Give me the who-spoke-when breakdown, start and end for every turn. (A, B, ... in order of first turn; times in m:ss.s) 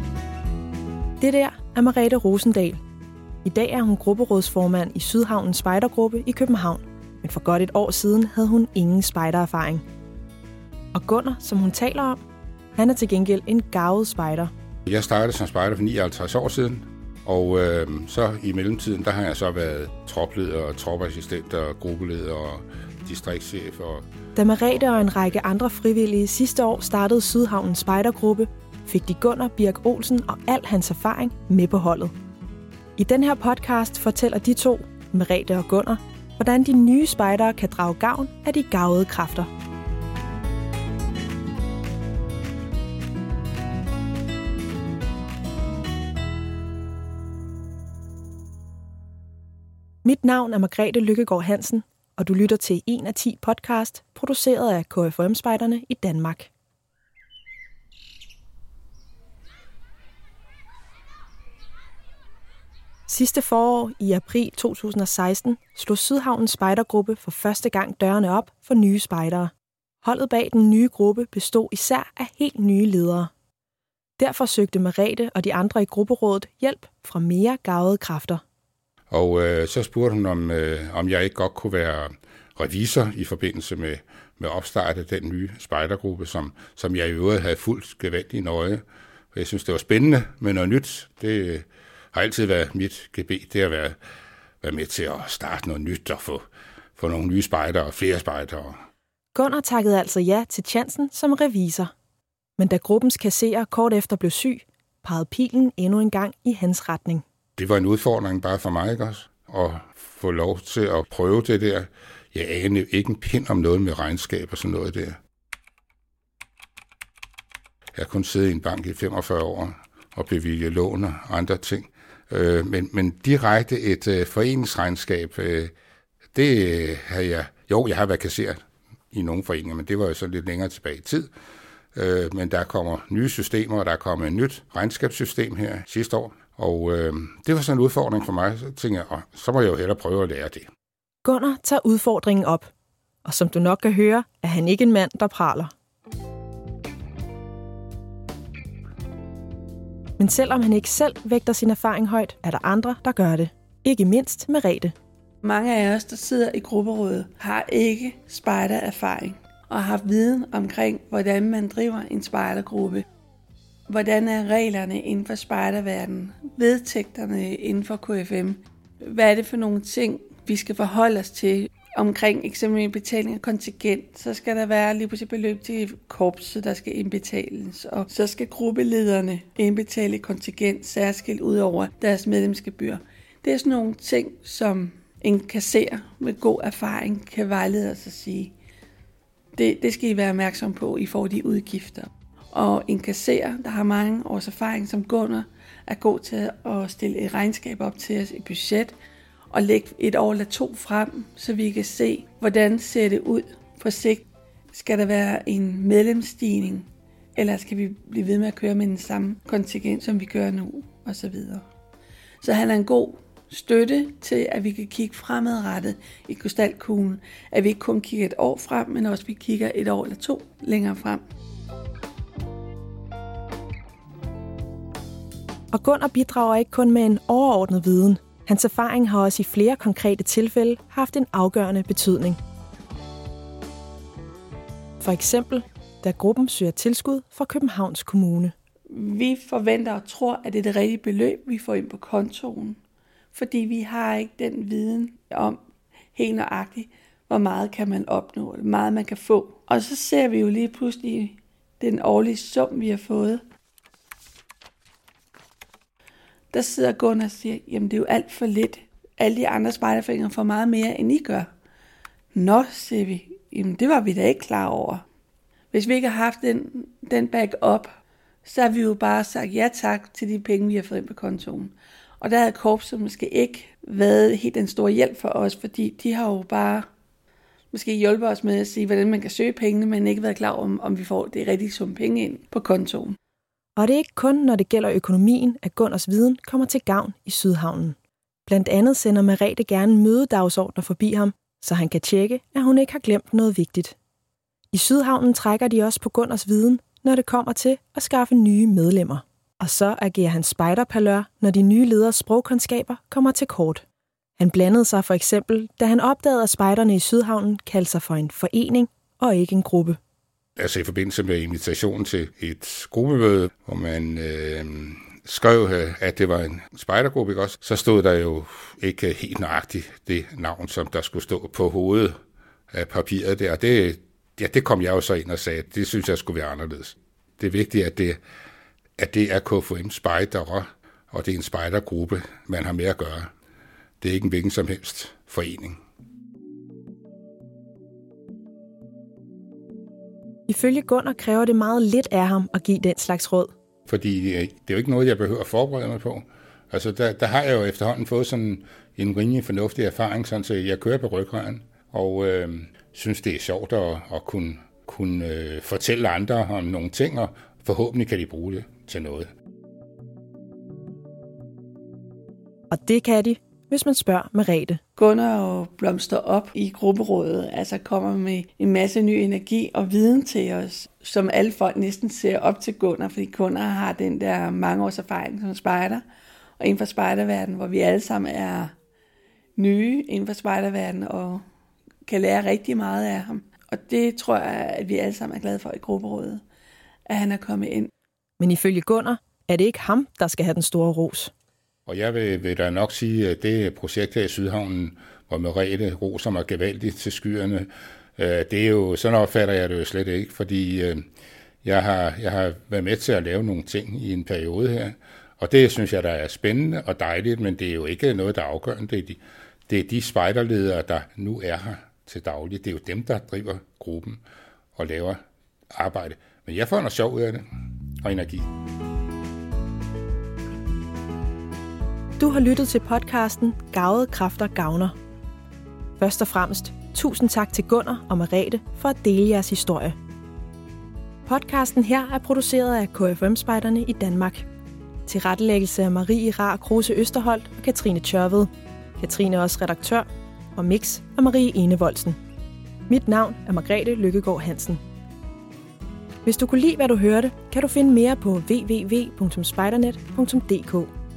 0:01.2-0:02.8 A
0:03.4-0:09.8 A
0:10.9-0:12.2 A
0:12.8-0:14.5 A
0:14.9-0:24.0 B
0:24.4-0:32.1 A
0:33.0-0:39.5 A
0:50.0-0:56.5 A
1:03.1-1:09.5 A
1:10.0-1:13.3 A
1:14.2-1:18.4 A
1:19.1-1:28.8 B
1:29.3-1:34.0 B
1:34.6-1:36.4 B
1:37.0-1:38.8 B
1:39.3-1:41.9 A
1:42.6-1:47.2 A
1:47.6-1:55.2 B
1:57.9-2:05.7 B
2:06.3-2:08.6 B
2:09.1-2:11.3 B
2:11.9-2:20.7 B
2:21.2-2:22.7 A
2:23.2-2:25.7 A
2:30.2-2:34.9 A
2:35.4-2:43.0 C
2:43.9-3:08.5 C
3:09.5-3:18.9 C
3:19.5-3:31.6 C
3:32.4-3:41.2 C
3:45.7-3:52.4 A
3:55.0-3:58.5 A
3:58.9-4:02.8 C
4:03.3-4:05.6 C
4:06.1-4:13.4 C
4:16.5-4:21.5 C
4:22.3-4:25.0 C
4:25.7-4:27.9 C
4:28.4-4:36.9 C
4:37.7-4:43.2 C
4:43.8-4:54.0 A
4:54.7-5:03.8 A
5:04.4-5:10.0 A
5:10.6-5:22.1 B
5:22.7-5:28.2 B
5:29.0-5:33.3 B
5:34.0-5:35.8 B
5:40.5-5:43.5 A
5:43.9-5:59.3 B
6:02.7-6:04.8 A
6:05.0-6:16.0 C
6:16.6-6:18.7 C
6:19.6-6:21.4 C
6:22.0-6:26.4 C
6:27.1-6:27.9 C
6:28.4-6:31.3 A
6:31.9-6:41.0 B
6:41.6-6:54.2 B
6:54.7-6:55.2 B
6:55.7-6:57.4 B
6:58.0-6:58.5 B
7:02.2-7:04.9 A
7:06.0-7:10.0 A
7:11.2-7:14.4 A
7:15.0-7:22.2 A
7:22.9-7:24.8 A
7:26.2-7:30.9 A